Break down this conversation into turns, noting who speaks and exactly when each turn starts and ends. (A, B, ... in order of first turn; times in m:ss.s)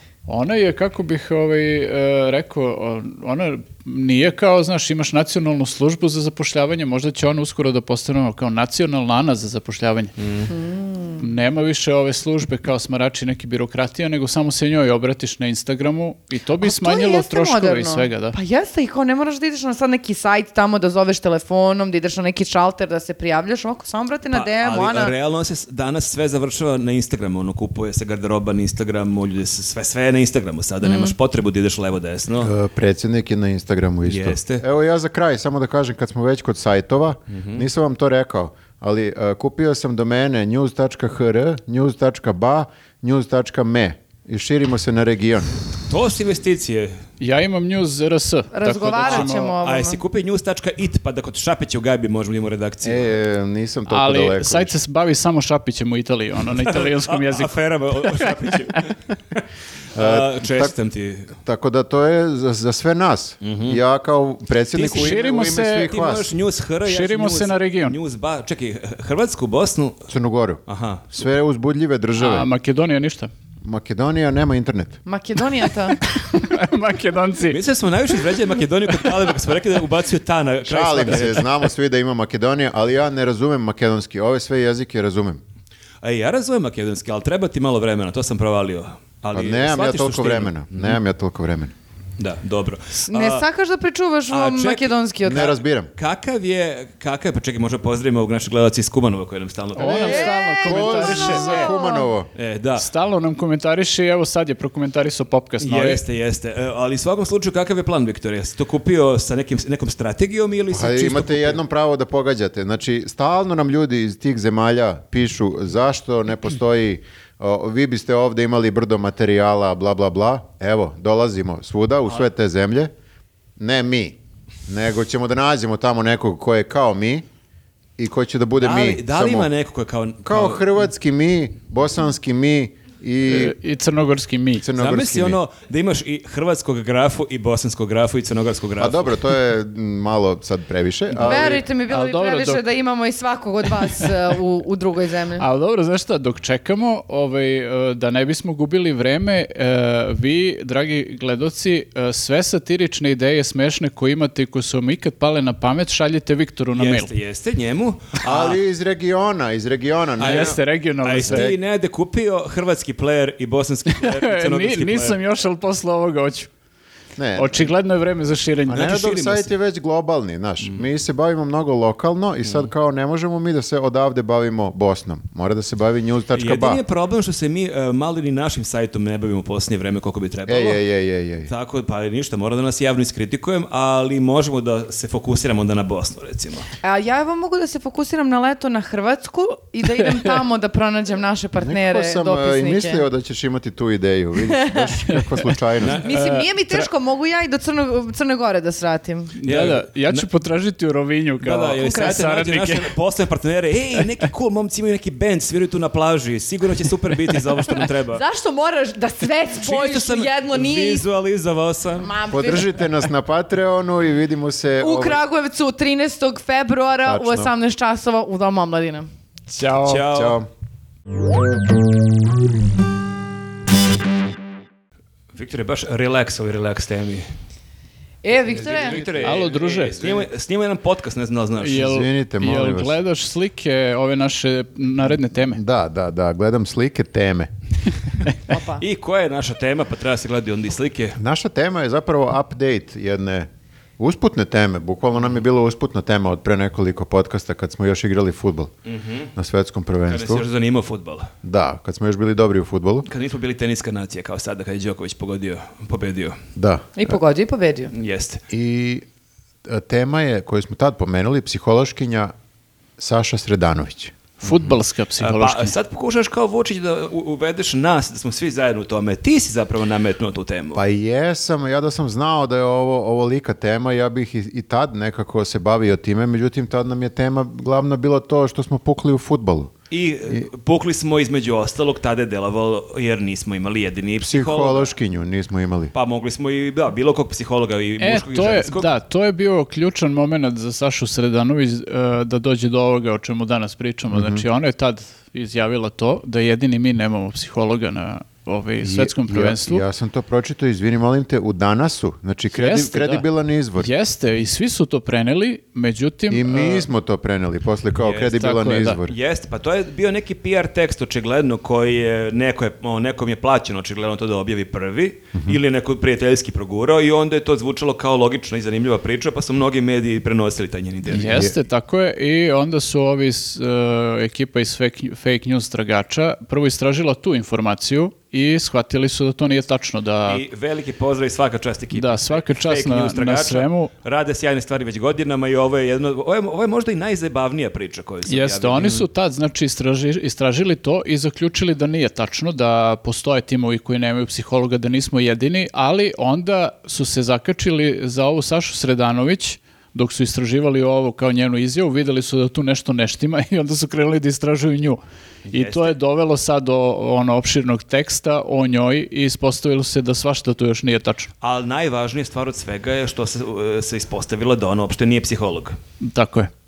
0:00.3-0:10.1 A
0:10.2-0:10.5 B
0:10.5-0:11.3 C
0:11.2-0:18.4 A
0:16.6-0:25.1 C
0:24.3-0:32.5 B
0:30.8-0:31.2 C
0:32.4-0:45.5 D
0:34.1-0:34.6 B
0:37.3-0:37.6 B
0:45.9-0:47.0 B
0:47.2-0:49.5 A
0:48.5-0:50.0 C
0:49.0-0:53.1 B
0:52.8-0:54.8 D
0:53.9-0:57.6 A
0:56.5-0:59.4 B
0:58.1-0:58.5 A
1:00.0-1:01.3 B
1:00.0-1:00.7 D
1:01.4-1:06.3 D
1:03.4-1:03.8 B
1:04.7-1:10.1 B
1:04.9-1:05.9 A
1:06.9-1:08.0 A
1:10.1-1:12.5 D
1:10.7-1:11.2 B
1:12.2-1:13.3 A
1:13.6-1:15.0 D
1:15.1-1:16.0 C
1:16.0-1:17.6 A
1:17.5-1:21.6 B
1:20.6-1:25.4 D
1:26.0-1:31.0 B
1:29.3-1:31.7 D
1:32.2-1:33.4 B
1:33.1-1:35.5 C
1:34.3-1:40.4 B
1:35.2-1:35.9 D
1:39.8-1:41.7 A
1:39.8-1:42.1 C
1:40.6-1:42.3 D
1:42.4-1:42.9 B
1:42.8-1:46.0 A
1:45.6-1:51.6 B
1:50.7-2:02.9 D
2:03.6-2:07.2 D
2:08.0-2:09.5 D
2:08.6-2:10.8 B
2:10.2-2:13.6 D
2:13.3-2:14.6 A
2:14.6-2:15.4 D
2:14.8-2:19.2 B
2:18.8-2:21.6 D
2:21.2-2:25.5 C
2:21.9-2:22.6 A
2:25.4-2:37.1 A
2:36.7-2:38.6 B
2:38.2-2:40.6 D
2:40.2-2:41.5 A
2:40.2-2:45.2 B
2:41.3-2:41.6 D
2:43.9-2:46.5 A
2:47.2-2:47.7 D
2:47.4-2:49.0 A
2:48.7-2:56.8 D
2:48.8-2:49.5 B
2:56.3-3:00.8 B
3:00.5-3:01.5 D
3:01.5-3:06.7 B
3:06.8-3:13.0 C
3:11.6-3:16.0 D
3:14.4-3:14.9 C
3:15.8-3:16.3 B
3:16.0-3:19.4 C
3:16.1-3:16.9 A
3:19.4-3:22.9 A
3:19.4-3:20.3 B
3:21.4-3:28.2 B
3:28.1-3:31.1 C
3:29.5-3:32.1 B
3:32.0-3:32.8 C
3:32.3-3:35.2 D
3:34.8-3:39.1 C
3:37.0-3:37.5 D
3:39.5-3:40.1 A
3:39.8-3:40.4 B
3:40.1-3:40.5 D
3:45.3-3:47.3 B
3:48.2-3:49.3 C
3:48.5-3:51.9 B
3:49.2-3:50.2 A
3:51.6-3:55.6 A
3:51.8-3:53.0 D
3:55.4-3:57.5 D
3:58.5-3:58.8 C
3:58.8-4:01.2 B
4:01.2-4:03.5 D
4:04.0-4:08.7 D
4:08.9-4:09.3 B
4:09.4-4:10.4 D
4:10.1-4:11.3 B
4:11.4-4:13.1 D
4:13.1-4:16.4 B
4:16.6-4:17.1 D
4:17.0-4:17.9 C
4:17.9-4:18.4 B
4:18.5-4:19.0 D
4:19.7-4:22.3 D
4:23.0-4:24.2 D
4:24.4-4:25.8 A
4:25.2-4:30.8 B
4:30.8-4:39.7 D
4:39.9-4:44.9 B
4:44.2-4:45.9 D
4:45.9-4:48.9 B
4:48.0-4:59.8 A
4:54.1-4:54.4 D
4:58.8-5:03.9 D
5:02.5-5:03.2 A
5:03.8-5:06.9 A
5:06.3-5:09.2 D
5:08.0-5:08.4 B
5:08.3-5:09.0 A
5:09.1-5:21.5 B
5:21.1-5:21.5 D
5:21.1-5:30.4 A
5:30.3-5:39.1 B
5:31.9-5:33.9 A
5:38.3-6:01.3 A
5:55.5-5:55.9 B
6:01.4-6:05.8 B
6:06.0-6:06.5 A